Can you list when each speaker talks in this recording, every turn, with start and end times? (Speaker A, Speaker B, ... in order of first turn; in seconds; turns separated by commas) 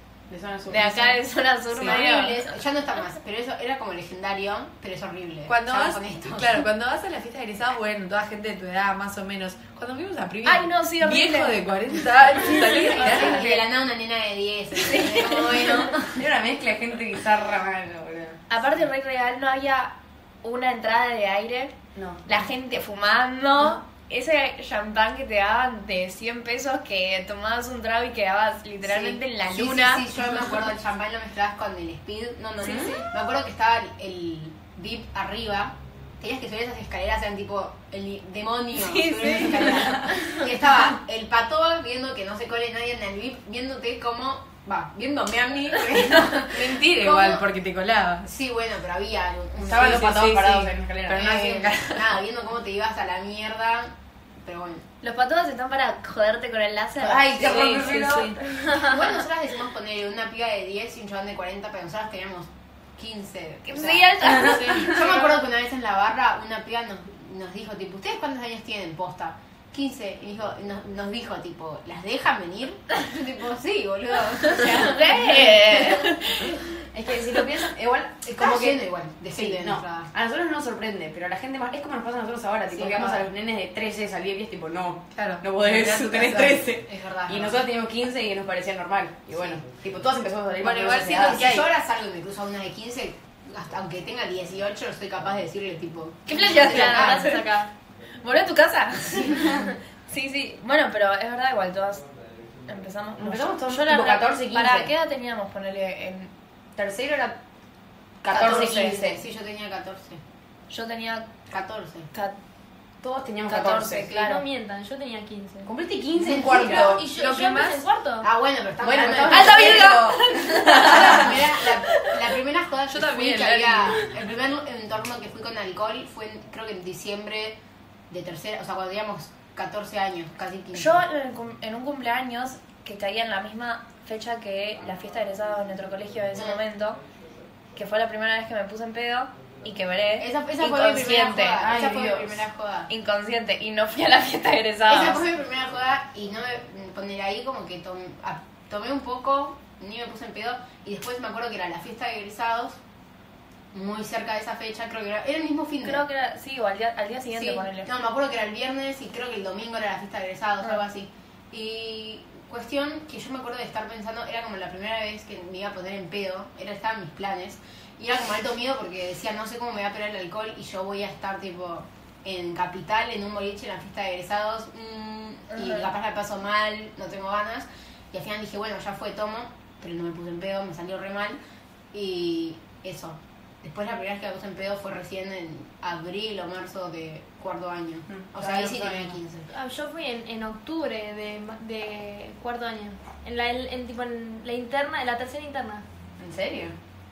Speaker A: 0.3-1.2, Speaker B: 0.7-2.5, Speaker C: 1.7-6.6, Speaker D: 5.5-13.6, Speaker B: 10.4-11.6, Speaker C: 12.8-16.2, Speaker B: 13.0-13.4, Speaker B: 14.9-15.9, Speaker A: 16.1-18.4, Speaker B: 18.5-21.7, Speaker A: 21.9-22.2, Speaker B: 22.2-30.1, Speaker C: 28.8-47.4, Speaker B: 32.6-33.0, Speaker A: 32.6-32.9, Speaker B: 38.8-40.4, Speaker D: 46.0-48.3, Speaker C: 48.2-50.3, Speaker A: 49.6-51.2, Speaker D: 49.7-52.2, Speaker C: 51.1-54.8, Speaker B: 55.0-58.9, Speaker A: 57.0-58.4, Speaker C: 57.4-58.1, Speaker E: 58.2-58.9, Speaker C: 58.7-76.5, Speaker B: 63.7-65.3, Speaker D: 64.3-65.1, Speaker B: 74.6-76.5, Speaker A: 76.9-91.5, Speaker C: 78.2-80.1, Speaker C: 82.7-83.3, Speaker D: 85.1-86.6, Speaker C: 86.6-87.6, Speaker D: 90.6-91.7, Speaker C: 91.0-97.4, Speaker B: 96.3-97.7, Speaker E: 96.7-97.7, Speaker B: 98.2-102.0, Speaker C: 99.2-99.6, Speaker B: 102.7-106.3, Speaker A: 103.2-104.9, Speaker A: 106.8-107.4, Speaker A: 108.2-109.2, Speaker C: 108.3-110.2, Speaker B: 108.4-108.9, Speaker B: 110.7-111.3, Speaker C: 111.5-112.1, Speaker B: 112.1-112.4, Speaker A: 113.0-114.1, Speaker B: 113.5-114.4, Speaker E: 114.0-115.7, Speaker A: 115.6-117.1, Speaker C: 116.1-117.0, Speaker E: 116.4-118.3, Speaker D: 117.0-117.8, Speaker C: 118.2-120.0, Speaker A: 118.8-121.4, Speaker B: 119.2-121.4, Speaker C: 120.7-127.5, Speaker D: 122.9-124.1, Speaker C: 128.1-131.0, Speaker B: 130.7-137.0, Speaker C: 136.3-136.6, Speaker B: 137.7-141.7, Speaker C: 140.2-142.9, Speaker A: 141.6-142.4, Speaker B: 142.9-145.2, Speaker C: 144.9-152.8, Speaker C: 153.7-156.0, Speaker B: 155.8-157.9, Speaker C: 157.3-181.4, Speaker B: 175.5-175.9, Speaker C: 181.9-189.5, Speaker A: 188.1-189.2, Speaker E: 189.5-195.8, Speaker A: 196.2-196.8